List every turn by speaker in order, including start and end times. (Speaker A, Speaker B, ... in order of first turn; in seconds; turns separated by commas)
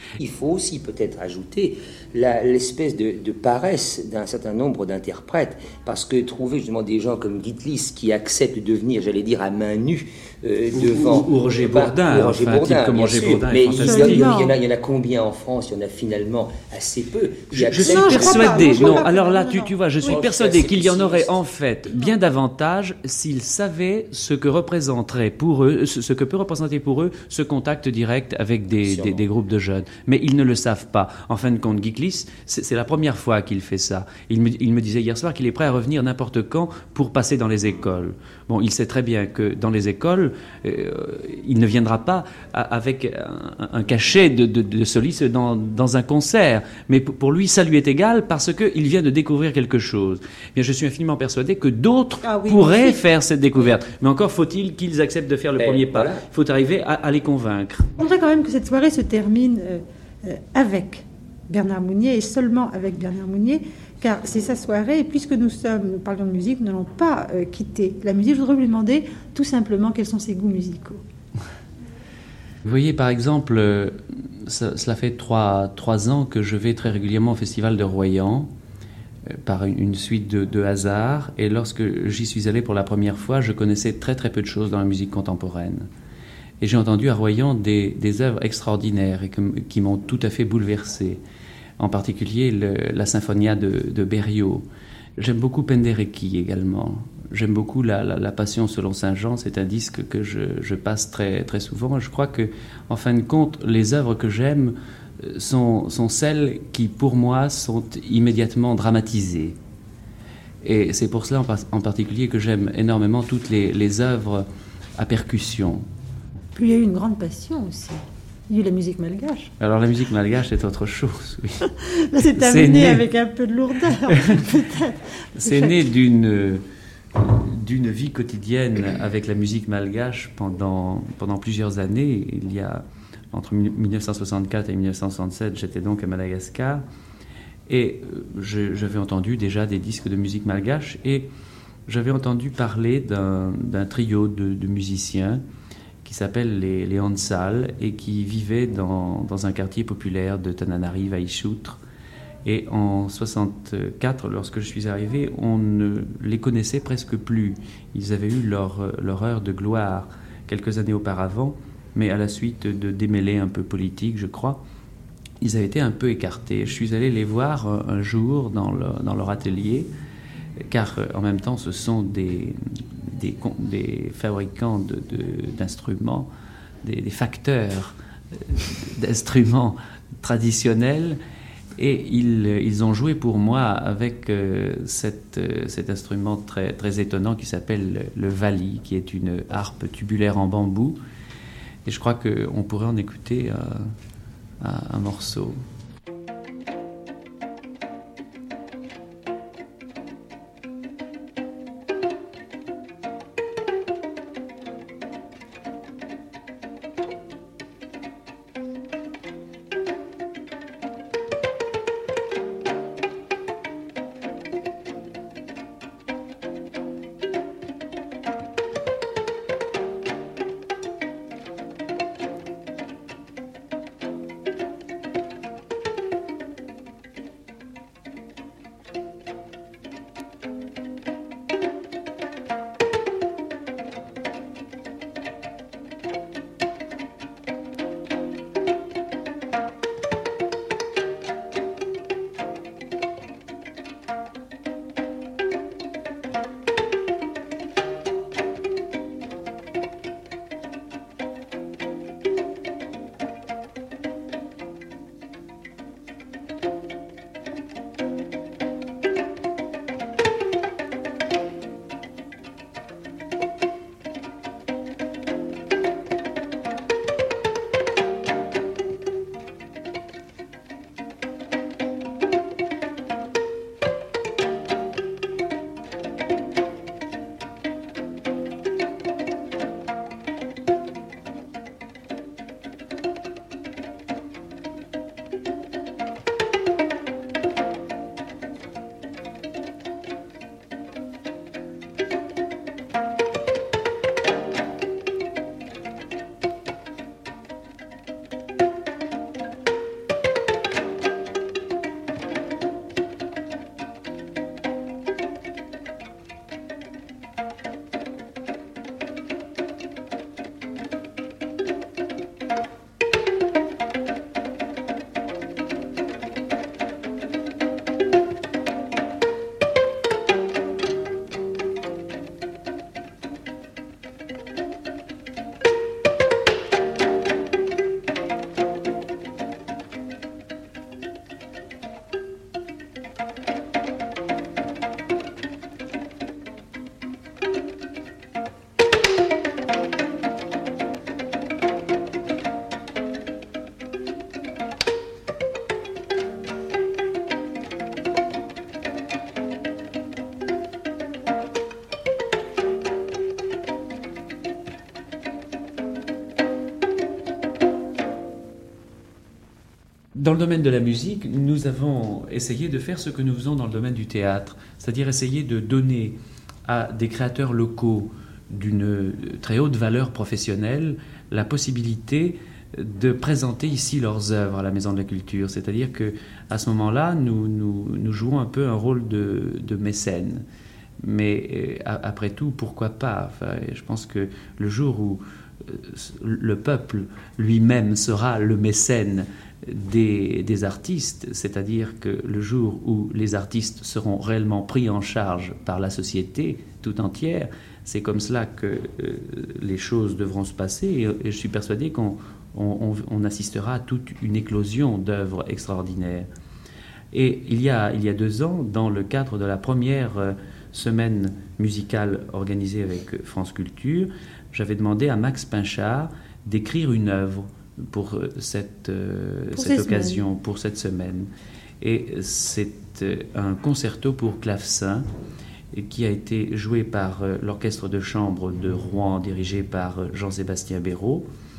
Speaker A: 0.2-19.1, Speaker B: 10.7-14.3, Speaker C: 13.8-14.6, Speaker B: 17.5-57.9, Speaker C: 17.7-20.2, Speaker A: 20.0-21.4, Speaker A: 28.8-29.2, Speaker C: 52.2-53.0, Speaker A: 55.6-56.2, Speaker C: 58.0-71.0, Speaker B: 72.7-78.5, Speaker B: 79.3-85.9, Speaker B: 86.6-91.2, Speaker B: 91.8-94.7, Speaker B: 95.2-109.6, Speaker B: 110.6-114.5, Speaker B: 115.0-115.8, Speaker C: 116.5-119.5, Speaker B: 119.6-121.7, Speaker C: 121.9-125.8, Speaker B: 122.4-123.0, Speaker B: 124.1-124.4, Speaker B: 125.4-126.6, Speaker B: 127.2-136.8, Speaker B: 137.7-141.3, Speaker B: 141.9-145.4, Speaker B: 146.0-151.8, Speaker B: 152.4-164.6, Speaker B: 165.4-169.9, Speaker B: 170.7-176.3, Speaker B: 176.8-181.2, Speaker B: 181.8-191.0, Speaker B: 191.8-193.9, Speaker B: 194.6-195.6, Speaker B: 360.2-366.2, Speaker B: 366.7-380.4, Speaker B: 381.0-406.3, Speaker B: 407.1-421.3, Speaker C: 419.5-420.2, Speaker B: 421.8-425.1, Speaker B: 425.7-431.3